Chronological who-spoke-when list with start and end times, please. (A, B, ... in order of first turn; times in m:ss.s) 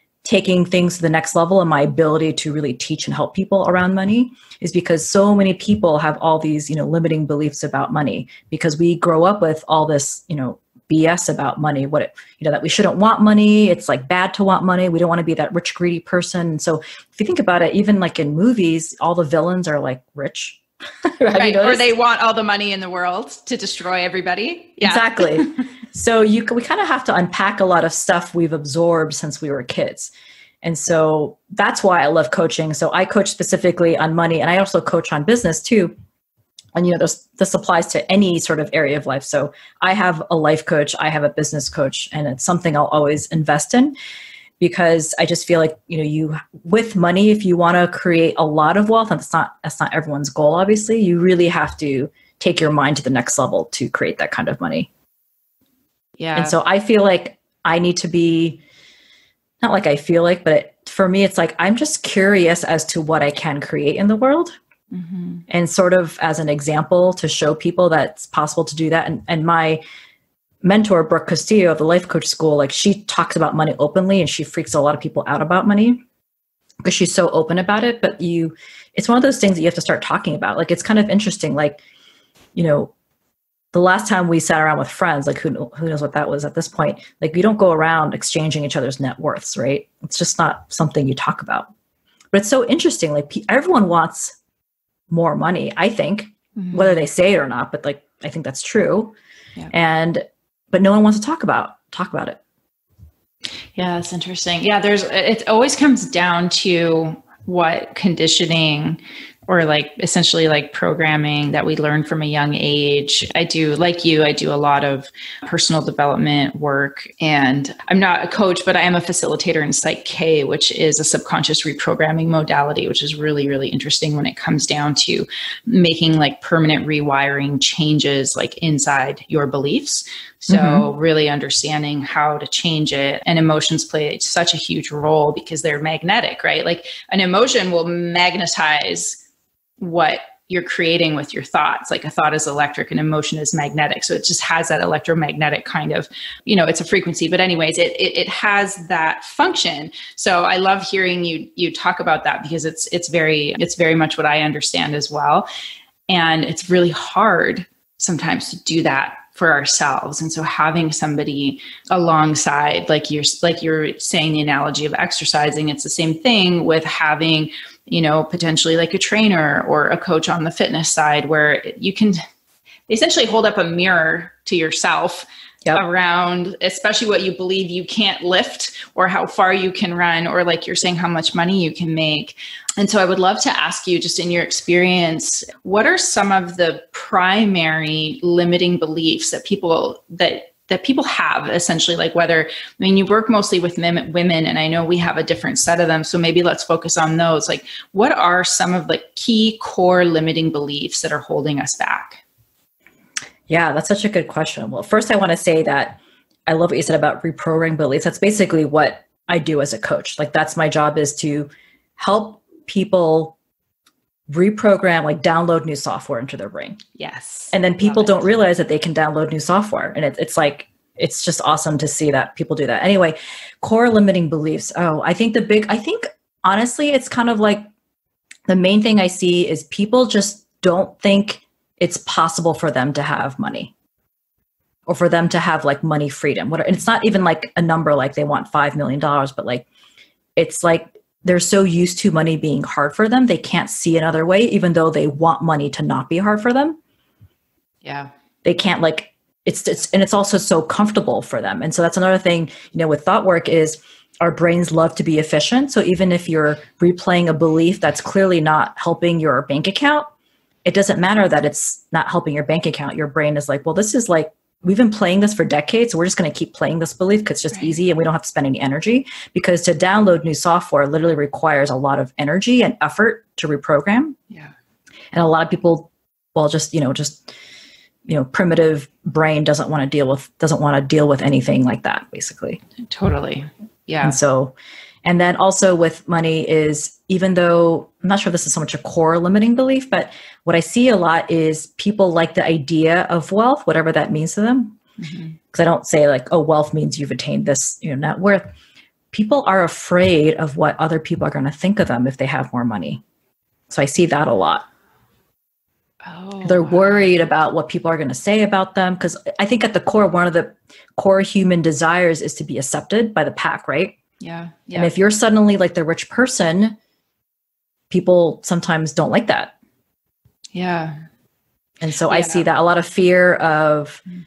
0:00.2-0:21.9 A
0:21.4-0:25.6 B
0:24.8-0:35.9 A
0:36.7-0:43.9 A
0:44.6-0:54.9 A
0:56.2-0:56.6 B
0:56.3-0:58.6 A
0:59.6-1:04.5 A
1:04.9-1:05.4 B
1:05.5-1:09.8 A
1:10.6-1:16.0 A
1:16.8-1:21.8 A
1:22.5-1:22.9 A
1:23.7-1:31.7 A
1:32.3-1:34.3 A
1:35.1-1:39.1 A
1:36.6-1:36.9 B
1:39.7-1:42.4 A
1:43.8-2:19.2 B
2:10.5-2:10.8 A
2:19.8-2:35.5 B
2:36.1-2:52.2 B
2:52.9-3:22.2 B
3:23.5-3:33.3 A
3:34.3-3:36.8 A
3:37.0-3:38.2 B
3:37.5-3:47.7 A
3:48.5-3:53.7 A
3:54.9-3:59.6 A
4:00.4-4:06.8 A
4:07.8-4:08.1 B
4:08.4-4:20.1 A
4:20.6-4:34.2 A
4:35.1-4:37.3 A
4:38.0-4:42.6 A
4:42.9-4:44.2 B
4:44.0-4:54.8 A
4:55.0-4:55.3 B
4:55.5-4:58.5 A
4:59.1-5:03.0 A
5:03.7-5:04.6 A
5:06.0-5:07.1 B
5:06.4-5:14.0 A
5:14.2-5:14.9 B
5:14.7-5:16.8 A
5:17.9-5:19.5 A
5:20.5-5:21.0 B
5:21.8-5:24.0 A
5:22.1-5:22.4 B